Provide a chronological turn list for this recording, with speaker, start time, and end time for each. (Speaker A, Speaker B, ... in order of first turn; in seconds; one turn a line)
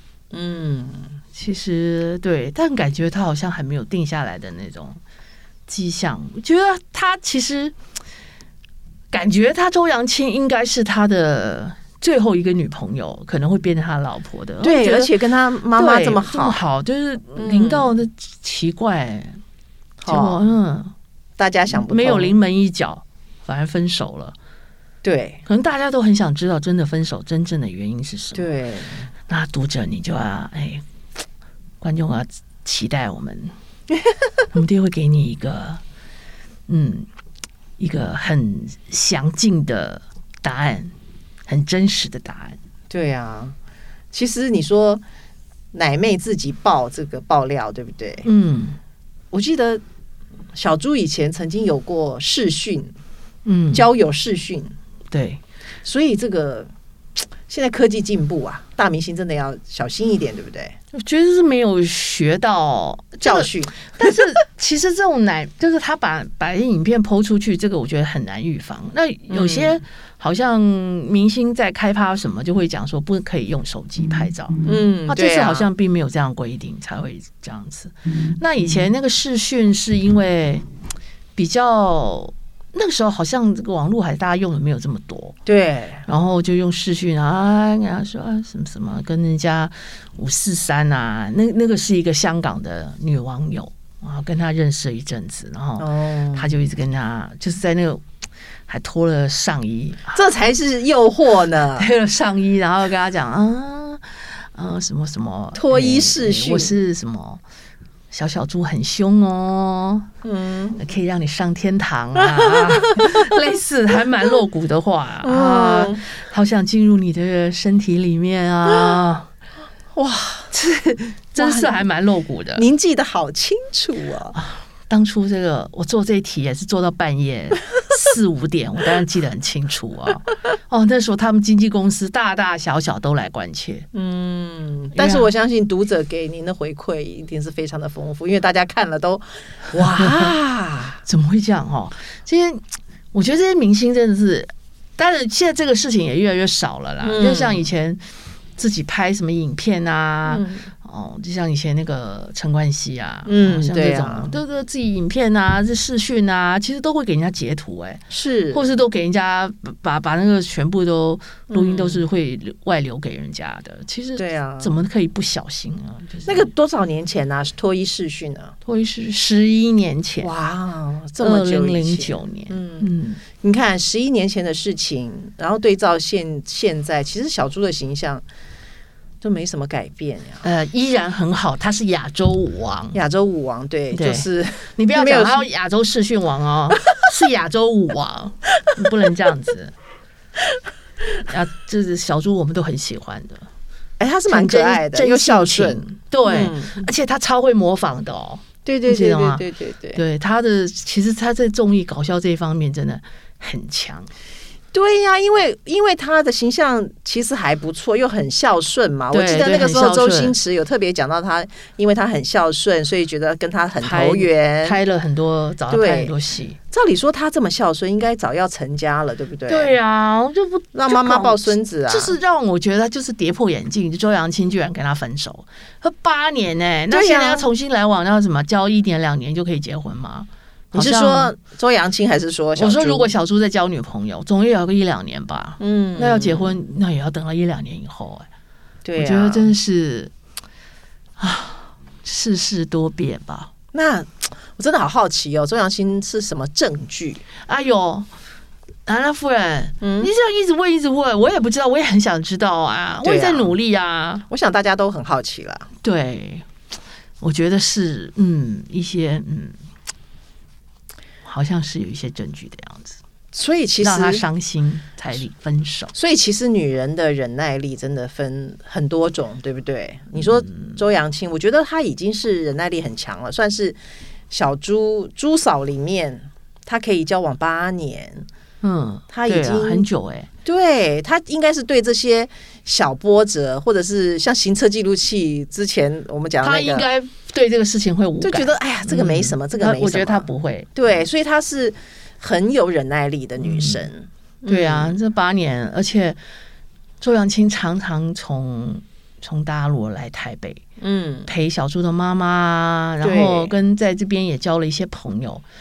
Speaker A: 0.3-1.2
Speaker B: 1.3-5.0
Speaker B: 5.7-7.8
Speaker B: 9.1-15.1
Speaker A: 14.6-16.6
Speaker B: 15.8-19.4
Speaker A: 17.4-17.9
Speaker A: 20.0-20.4
Speaker B: 20.1-20.9
Speaker A: 21.4-22.4
Speaker B: 21.7-24.4
Speaker A: 25.0-25.4
Speaker B: 25.5-28.5
Speaker A: 28.3-29.1
Speaker B: 29.3-30.9
Speaker B: 31.8-33.5
Speaker B: 34.5-35.8
Speaker B: 36.7-37.1
Speaker B: 37.8-40.9
Speaker B: 41.5-42.6
Speaker A: 42.9-43.5
Speaker A: 44.1-45.0
Speaker A: 45.7-48.3
Speaker B: 48.2-48.8
Speaker A: 49.3-49.8
Speaker A: 50.5-52.9
Speaker B: 53.5-53.9
Speaker A: 53.7-54.7
Speaker B: 55.1-55.4
Speaker A: 55.8-60.8
Speaker B: 60.9-80.7
Speaker A: 63.2-64.2
Speaker A: 69.3-69.8
Speaker A: 74.7-75.7
Speaker B: 81.4-85.4
Speaker A: 85.5-86.1
Speaker B: 86.1-98.0
Speaker A: 95.8-96.5
Speaker B: 98.7-100.2
Speaker A: 100.1-101.9
Speaker B: 101.8-107.4
Speaker A: 105.5-106.8
Speaker B: 108.1-110.1
Speaker A: 110.2-110.8
Speaker B: 110.8-119.3
Speaker A: 112.2-113.3
Speaker A: 115.2-116.0
Speaker A: 120.0-120.5
Speaker B: 120.5-122.7
Speaker A: 121.4-121.8
Speaker A: 122.6-124.4
Speaker B: 124.3-133.9
Speaker A: 133.9-141.0
Speaker B: 134.9-135.3
Speaker B: 140.0-140.3
Speaker B: 141.1-148.0
Speaker A: 147.0-147.7
Speaker B: 148.6-166.5
Speaker A: 150.3-150.7
Speaker A: 153.3-154.3
Speaker A: 158.1-158.7
Speaker A: 161.5-162.0
Speaker A: 164.2-164.8
Speaker A: 166.3-168.6
Speaker B: 168.7-170.3
Speaker A: 170.2-178.2
Speaker B: 171.2-173.2
Speaker A: 179.2-180.4
Speaker B: 180.4-183.0
Speaker A: 182.9-185.4
Speaker B: 183.9-189.7
Speaker B: 191.2-193.5
Speaker A: 194.0-196.8
Speaker B: 194.3-199.4
Speaker A: 198.7-200.0
Speaker B: 199.9-204.1
Speaker A: 204.7-214.8
Speaker B: 209.1-210.4
Speaker B: 213.8-216.6
Speaker A: 215.7-216.1
Speaker A: 216.7-219.7
Speaker B: 219.5-231.3
Speaker A: 220.7-222.2
Speaker A: 226.9-227.5
Speaker A: 230.7-233.1
Speaker B: 232.6-238.3
Speaker A: 235.6-236.6
Speaker A: 238.8-239.5
Speaker B: 239.0-240.1
Speaker B: 241.2-243.5
Speaker A: 243.7-247.2
Speaker B: 247.4-248.1
Speaker B: 248.9-254.2
Speaker A: 249.8-250.1
Speaker A: 253.0-253.5
Speaker A: 254.3-255.7
Speaker B: 255.8-256.5
Speaker B: 257.2-259.6
Speaker B: 261.2-263.0
Speaker A: 263.3-264.2
Speaker B: 263.8-265.9
Speaker A: 265.9-273.8
Speaker A: 274.3-278.2
Speaker B: 278.6-280.3
Speaker A: 279.1-279.9
Speaker A: 280.4-286.9
Speaker B: 286.4-290.7
Speaker A: 288.2-294.9
Speaker B: 293.4-293.8
Speaker B: 294.5-296.2
Speaker B: 297.0-300.6
Speaker A: 300.8-301.3
Speaker B: 301.3-305.4
Speaker A: 303.0-303.5